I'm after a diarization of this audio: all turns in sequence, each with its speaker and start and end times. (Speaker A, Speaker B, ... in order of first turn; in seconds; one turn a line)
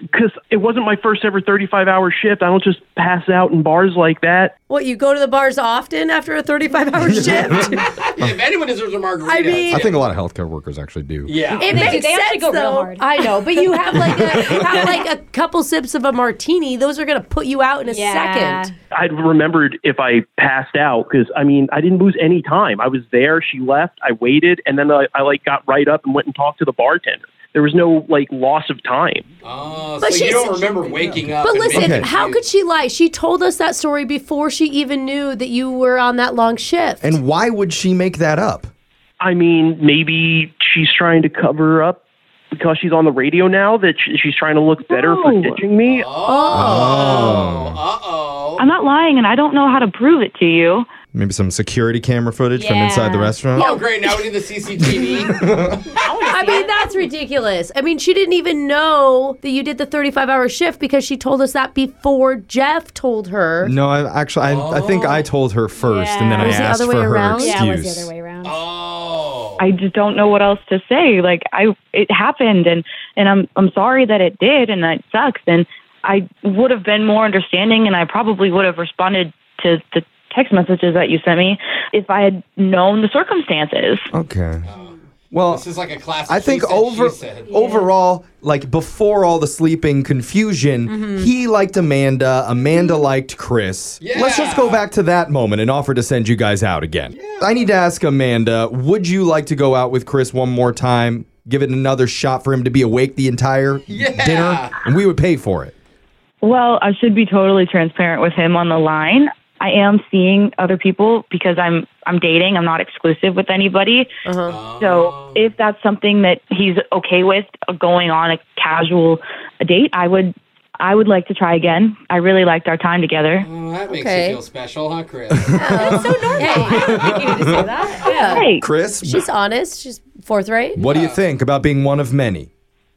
Speaker A: 0.1-4.5
Speaker B: 4.7-7.9
Speaker C: 7.1-8.3
Speaker D: 7.6-10.0
Speaker B: 9.2-9.9
Speaker C: 9.7-12.0
Speaker D: 11.3-11.8
Speaker B: 11.6-18.7
Speaker E: 11.7-14.1
Speaker C: 14.0-14.9
Speaker E: 17.9-18.8
Speaker A: 19.0-29.2
Speaker D: 29.4-32.4
Speaker B: 30.0-37.2
Speaker C: 31.1-32.1
Speaker C: 37.0-38.7
Speaker A: 39.2-42.0
Speaker A: 42.5-46.1
Speaker F: 44.9-45.6
Speaker D: 45.8-48.7
Speaker B: 46.2-47.4
Speaker C: 46.5-47.8
Speaker F: 48.6-50.9
Speaker C: 51.1-53.7
Speaker E: 52.5-53.4
Speaker D: 53.5-56.0
Speaker C: 55.2-55.8
Speaker E: 55.9-57.1
Speaker B: 56.2-63.7
Speaker C: 63.6-68.1
Speaker D: 64.4-65.3
Speaker E: 65.8-66.7
Speaker B: 66.4-67.6
Speaker E: 67.3-68.6
Speaker D: 68.4-69.6
Speaker F: 69.6-84.1
Speaker C: 84.1-84.7
Speaker D: 84.7-85.0
Speaker C: 85.3-85.6
Speaker D: 85.5-87.6
Speaker C: 86.3-105.8
Speaker E: 87.6-87.9
Speaker B: 90.9-91.3
Speaker D: 94.0-94.8
Speaker D: 97.1-97.4
Speaker D: 103.9-104.8
Speaker F: 106.4-114.1
Speaker B: 114.3-114.6
Speaker D: 114.5-115.5
Speaker F: 114.8-123.5
Speaker D: 123.4-125.8
Speaker B: 123.9-124.4
Speaker C: 125.3-127.7
Speaker B: 125.5-130.8
Speaker E: 125.7-128.3
Speaker F: 128.3-128.6
Speaker C: 128.5-129.2
Speaker C: 130.8-132.5
Speaker D: 130.8-131.2